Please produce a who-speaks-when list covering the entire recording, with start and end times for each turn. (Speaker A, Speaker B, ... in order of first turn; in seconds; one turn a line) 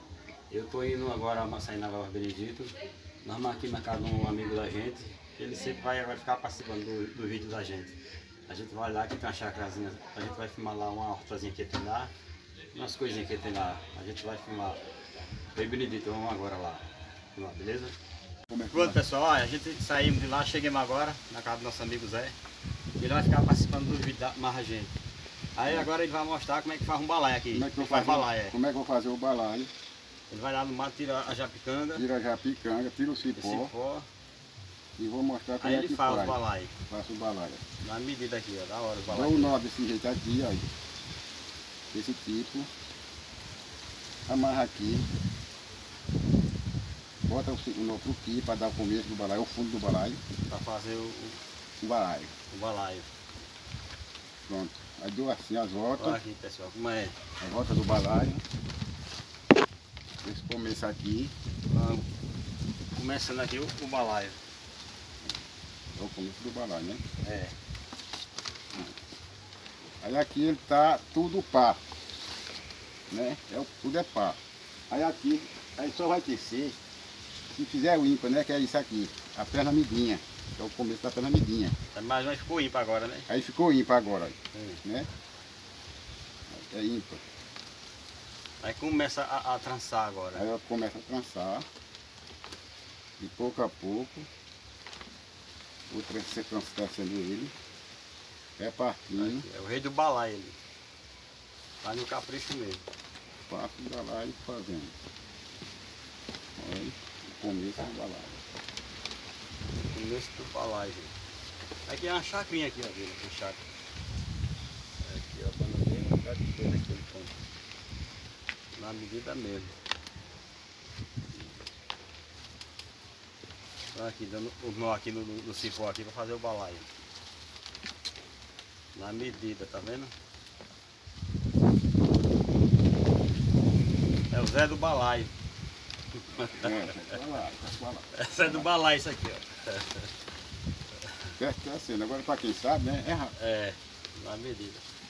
Speaker A: 0.5-8.0
Speaker A: 8.5-12.1
Speaker A: 12.7-14.8
Speaker A: 15.5-17.9
Speaker B: 18.5-19.0
Speaker A: 18.7-22.4
Speaker A: 23.0-24.9
Speaker A: 25.5-28.6
Speaker B: 27.5-29.7
Speaker A: 30.3-32.0
Speaker B: 31.9-33.7
Speaker A: 33.4-34.1
Speaker B: 35.0-37.6
Speaker A: 35.6-36.7
Speaker A: 37.8-39.6
Speaker B: 39.1-40.7
Speaker B: 41.9-42.7
Speaker B: 44.3-45.1
Speaker B: 47.2-50.2
Speaker A: 50.5-51.4
Speaker B: 51.8-52.3
Speaker A: 52.5-53.1
Speaker B: 54.5-56.2
Speaker A: 56.0-57.1
Speaker B: 57.4-58.4
Speaker B: 60.2-61.3
Speaker A: 61.7-62.0
Speaker A: 62.9-64.4
Speaker B: 66.0-67.0
Speaker A: 67.2-67.5
Speaker B: 70.0-71.8
Speaker B: 73.1-74.4
Speaker B: 74.9-76.8
Speaker B: 77.5-81.8
Speaker A: 81.9-83.3
Speaker B: 83.3-85.1
Speaker A: 84.5-84.8
Speaker B: 86.5-87.2
Speaker A: 88.6-90.4
Speaker B: 90.3-91.7
Speaker B: 93.2-94.3
Speaker B: 95.9-97.5
Speaker B: 98.6-99.5
Speaker A: 99.2-100.6
Speaker A: 101.8-102.8
Speaker B: 103.5-104.9
Speaker B: 106.6-108.4
Speaker A: 109.8-111.1
Speaker A: 111.9-113.6
Speaker A: 115.0-117.3
Speaker A: 118.7-119.7
Speaker A: 123.9-126.9
Speaker A: 128.9-130.1
Speaker A: 134.3-135.3
Speaker A: 136.1-136.9
Speaker B: 136.5-138.7
Speaker A: 138.1-140.1
Speaker B: 141.4-143.3
Speaker A: 143.4-144.8